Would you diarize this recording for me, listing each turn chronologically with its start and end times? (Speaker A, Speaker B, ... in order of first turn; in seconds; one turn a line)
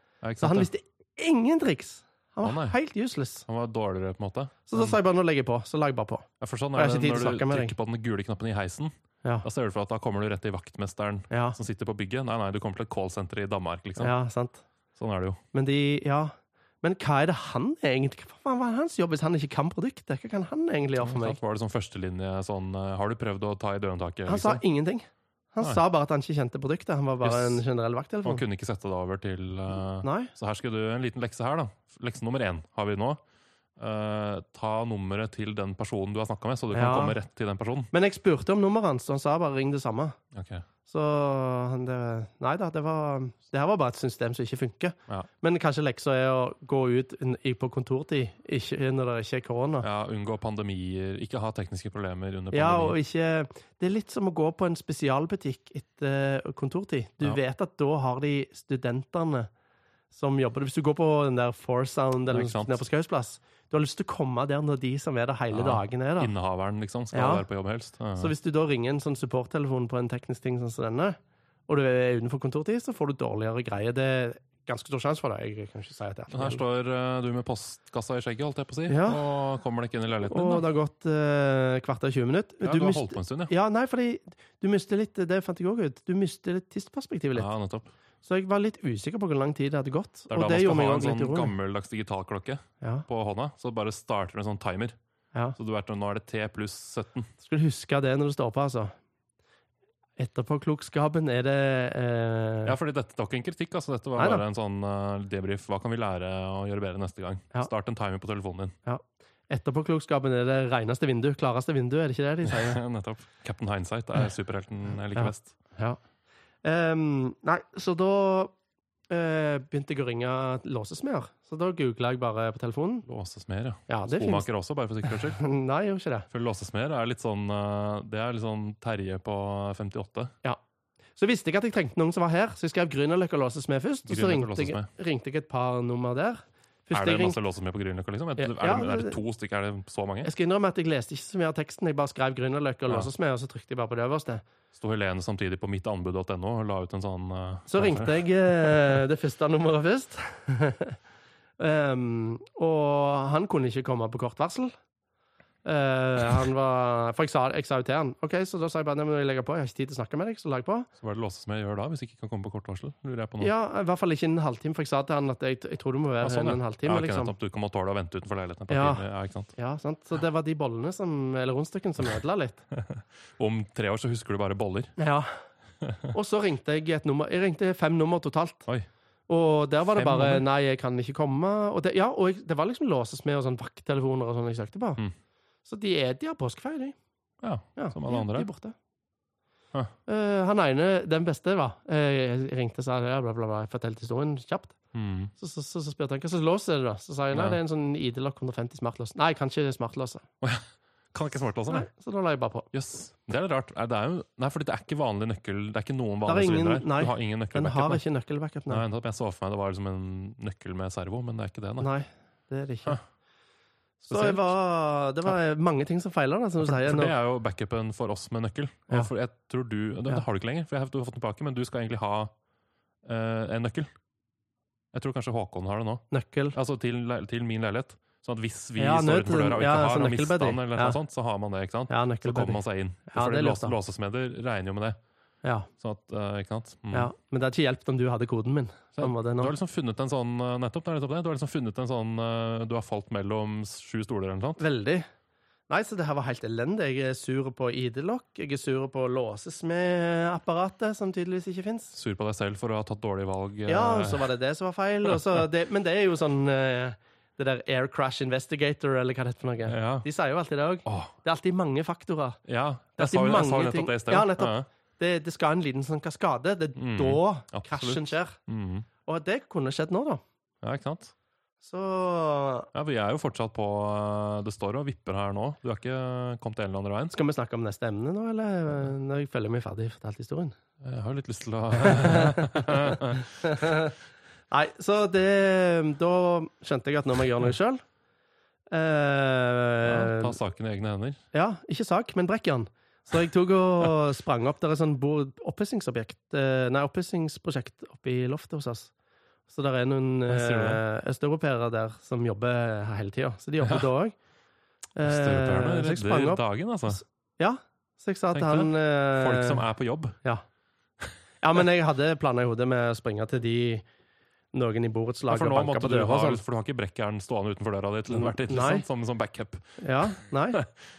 Speaker A: 0.2-0.7
Speaker B: 0.4-3.5
Speaker A: 2.4-2.8
Speaker A: 3.5-5.0
Speaker B: 4.7-7.7
Speaker A: 6.4-8.9
Speaker A: 9.4-14.1
Speaker B: 11.3-11.6
Speaker B: 14.0-14.6
Speaker A: 14.9-15.4
Speaker B: 15.5-21.4
Speaker A: 21.0-24.6
Speaker B: 24.2-28.4
Speaker A: 27.2-27.6
Speaker A: 28.2-33.2
Speaker B: 30.0-30.3
Speaker A: 33.8-37.9
Speaker B: 36.7-37.2
Speaker B: 37.9-40.2
Speaker A: 40.3-40.6
Speaker B: 40.9-49.9
Speaker A: 49.8-53.0
Speaker B: 52.5-59.5
Speaker B: 60.1-66.3
Speaker A: 62.3-62.8
Speaker A: 65.5-68.3
Speaker B: 67.1-67.4
Speaker B: 68.2-71.2
Speaker B: 71.7-76.6
Speaker A: 76.3-80.7
Speaker B: 78.9-79.2
Speaker B: 80.2-87.5
Speaker A: 82.6-83.5
Speaker A: 87.3-87.9
Speaker B: 88.2-91.5
Speaker A: 90.3-95.0
Speaker B: 92.8-93.0
Speaker A: 95.6-97.3
Speaker B: 97.4-98.9
Speaker B: 100.2-102.8
Speaker A: 102.6-108.7
Speaker B: 104.2-104.4
Speaker B: 108.8-112.8
Speaker A: 112.4-115.5
Speaker B: 115.2-116.0
Speaker B: 116.6-118.5
Speaker B: 119.1-123.0
Speaker A: 123.0-125.4
Speaker B: 123.9-124.5
Speaker B: 125.0-126.3
Speaker A: 126.3-130.3
Speaker B: 131.2-137.4
Speaker A: 134.1-134.9
Speaker A: 136.9-140.3
Speaker B: 138.4-139.2
Speaker B: 140.2-144.4
Speaker A: 144.7-149.0
Speaker B: 147.7-151.0
Speaker B: 151.6-154.7
Speaker B: 155.6-160.9
Speaker A: 161.0-163.5
Speaker B: 163.4-167.3
Speaker A: 166.2-169.5
Speaker B: 168.7-172.6
Speaker A: 172.7-174.9
Speaker B: 175.0-175.3
Speaker B: 176.1-178.7
Speaker B: 179.3-185.0
Speaker A: 179.9-180.4
Speaker B: 185.7-186.9
Speaker A: 187.4-188.5
Speaker B: 187.8-188.7
Speaker B: 190.1-194.8
Speaker A: 194.9-195.3
Speaker B: 195.4-200.2
Speaker A: 197.3-197.6
Speaker A: 200.4-201.9
Speaker B: 201.7-202.7
Speaker A: 202.7-208.0
Speaker B: 206.2-208.8
Speaker A: 208.7-211.9
Speaker B: 211.8-213.0
Speaker A: 214.0-214.5
Speaker B: 214.1-217.1
Speaker A: 216.6-222.3
Speaker A: 223.0-223.9
Speaker A: 224.9-226.0
Speaker B: 226.1-226.6
Speaker A: 226.5-235.0
Speaker B: 228.8-231.0
Speaker B: 231.9-233.8
Speaker B: 235.4-235.7
Speaker A: 235.8-237.1
Speaker B: 236.9-239.5
Speaker A: 239.0-244.6
Speaker B: 244.6-245.1
Speaker B: 245.7-251.9
Speaker A: 251.9-254.3
Speaker B: 253.7-262.4
Speaker A: 255.1-255.4
Speaker A: 259.7-260.1
Speaker A: 260.9-261.1
Speaker A: 262.4-264.7
Speaker B: 263.0-268.4
Speaker A: 266.8-268.9
Speaker B: 269.1-270.2
Speaker A: 270.6-271.1
Speaker B: 271.6-272.7
Speaker A: 272.7-277.1
Speaker B: 277.1-280.5
Speaker A: 280.8-283.7
Speaker B: 281.8-283.9
Speaker B: 284.5-287.8
Speaker B: 288.7-290.4
Speaker A: 289.8-291.2
Speaker B: 291.3-298.9
Speaker B: 299.5-304.1
Speaker A: 300.3-300.8
Speaker A: 303.6-303.9
Speaker B: 304.9-309.6
Speaker A: 305.0-307.0
Speaker A: 308.3-310.2
Speaker B: 311.4-313.8
Speaker B: 314.5-316.4
Speaker A: 315.3-320.8
Speaker B: 318.1-318.8
Speaker B: 319.8-320.6